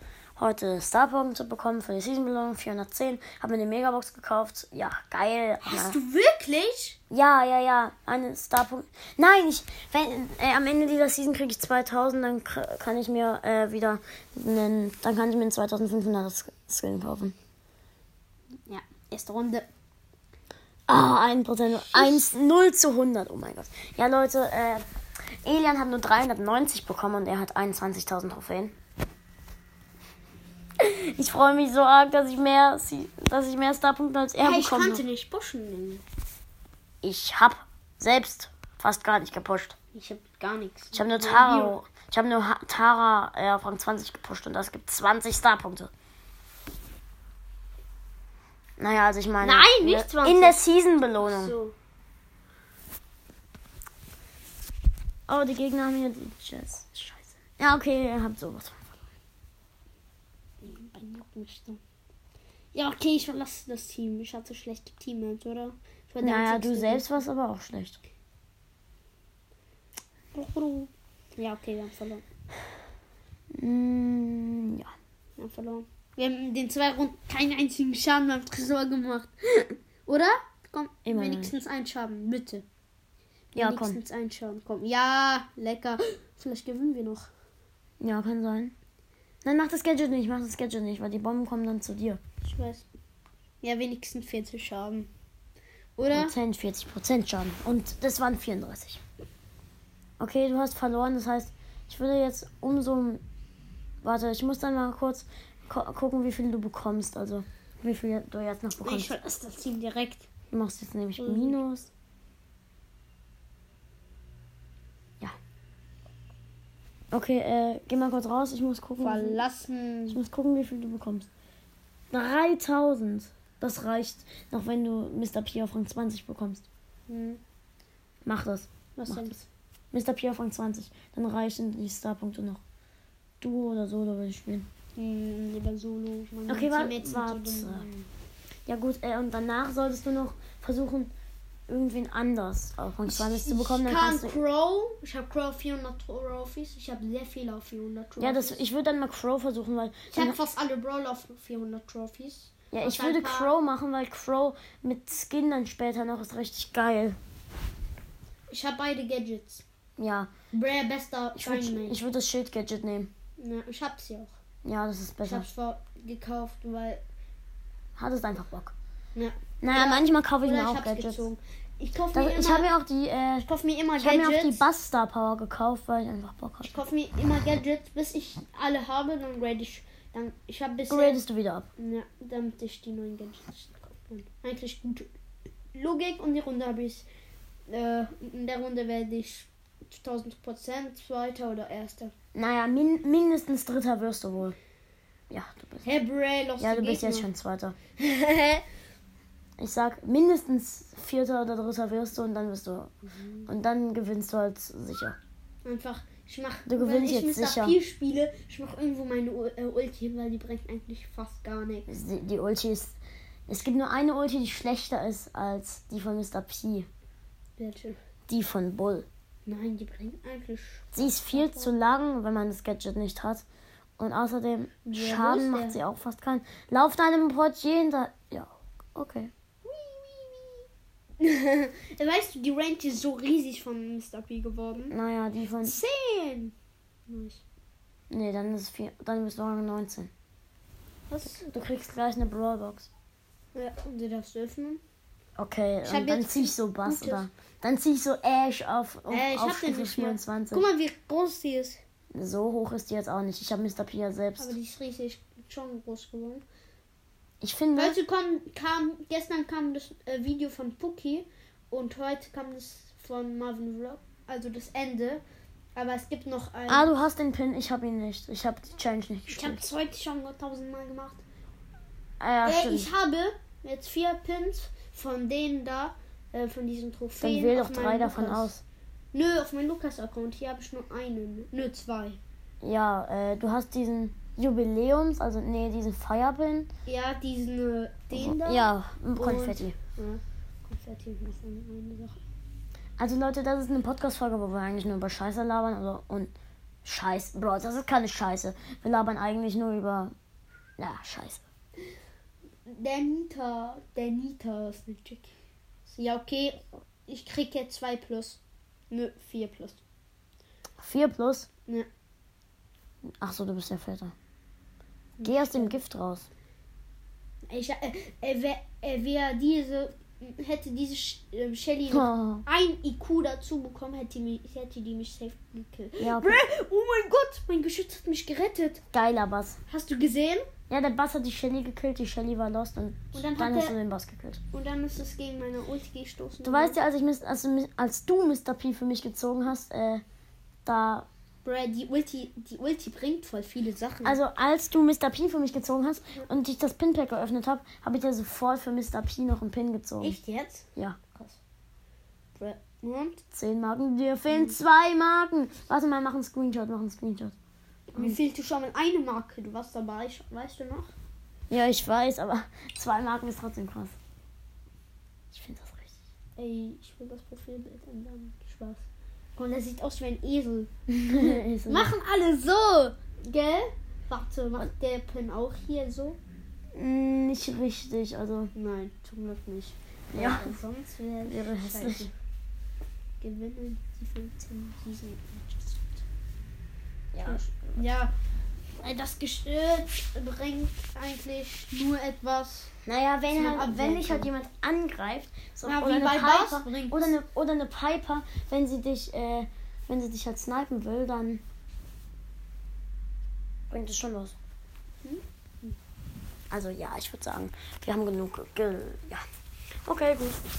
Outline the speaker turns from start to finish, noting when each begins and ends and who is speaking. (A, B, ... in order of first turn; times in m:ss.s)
0:00.4-0:06.0 A
0:05.6-0:07.0 B
0:07.1-0:17.4 A
0:18.7-0:19.7 B
0:20.9-0:24.8 A
0:21.8-0:22.3 B
0:25.4-0:28.7 A
0:30.8-0:35.0 A
0:34.4-0:36.0 B
0:37.0-0:39.8 A
0:39.9-0:41.8 B
0:40.9-0:45.9 A
0:48.8-0:51.6 A
0:49.4-0:50.6 B
0:51.2-0:51.8 B
0:55.3-0:59.0 A
1:00.6-1:01.8 B
1:02.7-1:07.2 B
1:06.2-1:08.0 A
1:10.3-1:12.2 B
1:13.6-1:14.9 A
1:15.4-1:22.7 B
1:21.0-1:21.5 A
1:23.6-1:24.0 A
1:23.6-1:27.3 B
1:28.0-1:28.7 A
1:29.4-1:32.2 A
1:32.4-1:32.9 B
1:33.6-1:35.1 B
1:36.0-1:36.4 B
1:36.1-1:39.0 A
1:40.2-1:43.2 A
1:44.0-1:49.2 A
1:48.8-1:50.3 B
1:50.5-1:51.9 A
1:51.2-1:51.6 B
1:57.1-1:59.4 A
1:59.0-2:00.2 B
2:00.1-2:01.3 A
2:02.1-2:06.6 A
2:07.1-2:07.4 B
2:08.2-2:09.4 A
2:09.0-2:09.4 B
2:09.9-2:12.6 A
2:13.4-2:14.7 A
2:15.0-2:18.0 B
2:16.5-2:17.9 A
2:18.7-2:21.1 A
2:21.7-2:24.4 A
2:23.1-2:28.6 B
2:28.2-2:30.4 A
2:30.1-2:33.5 B
2:32.7-2:37.2 A
2:38.5-2:39.6 B
2:40.0-2:40.3 A
2:40.5-2:42.0 B
2:41.4-2:43.1 A
2:43.4-2:44.4 B
2:44.6-2:45.5 A
2:45.2-2:47.0 B
2:48.0-2:48.8 A
2:49.2-2:52.7 B
2:49.6-2:51.3 A
2:52.1-2:56.8 A
2:53.4-2:54.6 B
2:56.6-3:01.2 B
3:00.9-3:01.7 A
3:01.8-3:05.1 B
3:05.7-3:07.1 B
3:07.7-3:12.1 B
3:12.3-3:14.6 A
3:15.3-3:15.9 A
3:15.8-3:17.3 B
3:16.6-3:17.8 A
3:18.0-3:18.6 B
3:19.6-3:22.9 A
3:23.4-3:25.2 A
3:25.6-3:31.9 B
3:26.7-3:27.8 A
3:31.9-3:33.0 A
3:33.5-3:36.9 A
3:37.6-3:38.0 B
3:38.3-3:39.1 A
3:39.5-3:41.7 B
3:40.9-3:43.4 A
3:44.0-3:49.3 A
3:44.9-3:45.8 B
3:49.6-3:50.7 B
3:51.2-3:55.0 B
3:54.9-3:55.8 A
3:55.6-3:56.6 B
3:57.1-3:57.4 B
3:58.1-4:00.1 A
4:01.1-4:01.4 B
4:01.2-4:02.9 A
4:03.5-4:04.8 B
4:05.4-4:10.6 A
4:05.8-4:07.3 B
4:09.1-4:11.8 B
4:12.1-4:14.6 A
4:14.4-4:16.4 B
4:17.4-4:18.0 A
4:17.8-4:25.2 B
4:25.8-4:26.9 B
4:26.7-4:29.6 A
4:29.3-4:31.2 B
4:32.2-4:32.9 A
4:32.4-4:38.5 B
4:37.2-4:38.6 A
4:39.1-4:42.2 B
4:42.6-4:46.7 A
4:46.9-4:52.2 B
4:48.1-4:49.8 A
4:53.0-4:56.3 A
4:56.8-5:00.1 A
5:00.8-5:01.4 A
5:02.7-5:05.3 B
5:05.9-5:08.4 B
5:08.9-5:09.8 B
5:10.8-5:11.5 A
5:13.2-5:14.1 A
5:15.2-5:15.8 B
5:15.2-5:16.3 A
5:17.5-5:28.8 B
5:21.9-5:22.4 A
5:26.0-5:26.4 A
5:28.9-5:29.6 A
5:29.7-5:30.5 B
5:30.7-5:34.4 A
5:33.1-5:33.8 B
5:34.5-5:36.8 B
5:36.4-5:40.0 A
5:40.6-5:41.1 A
5:41.4-5:44.2 B
5:44.0-5:50.2 A
5:50.0-5:51.4 B
5:52.4-5:53.2 B
5:53.3-5:57.4 A
5:54.3-5:54.6 B
5:57.9-6:00.9 B
6:01.5-6:04.0 A
6:05.3-6:05.9 A
6:06.4-6:08.8 B
6:09.4-6:16.2 B
6:10.9-6:11.9 A
6:16.8-6:18.5 A
6:18.6-6:22.1 B
6:20.1-6:20.5 A
6:21.2-6:22.1 A
6:23.2-6:26.0 B
6:27.1-6:27.8 A
6:27.2-6:28.1 B
6:28.8-6:32.7 B
6:32.8-6:41.4 A
6:33.3-6:34.3 B
6:35.6-6:37.2 B
6:43.7-6:44.4 A
6:45.0-6:45.8 B
6:46.5-6:49.2 A
6:49.8-6:50.4 A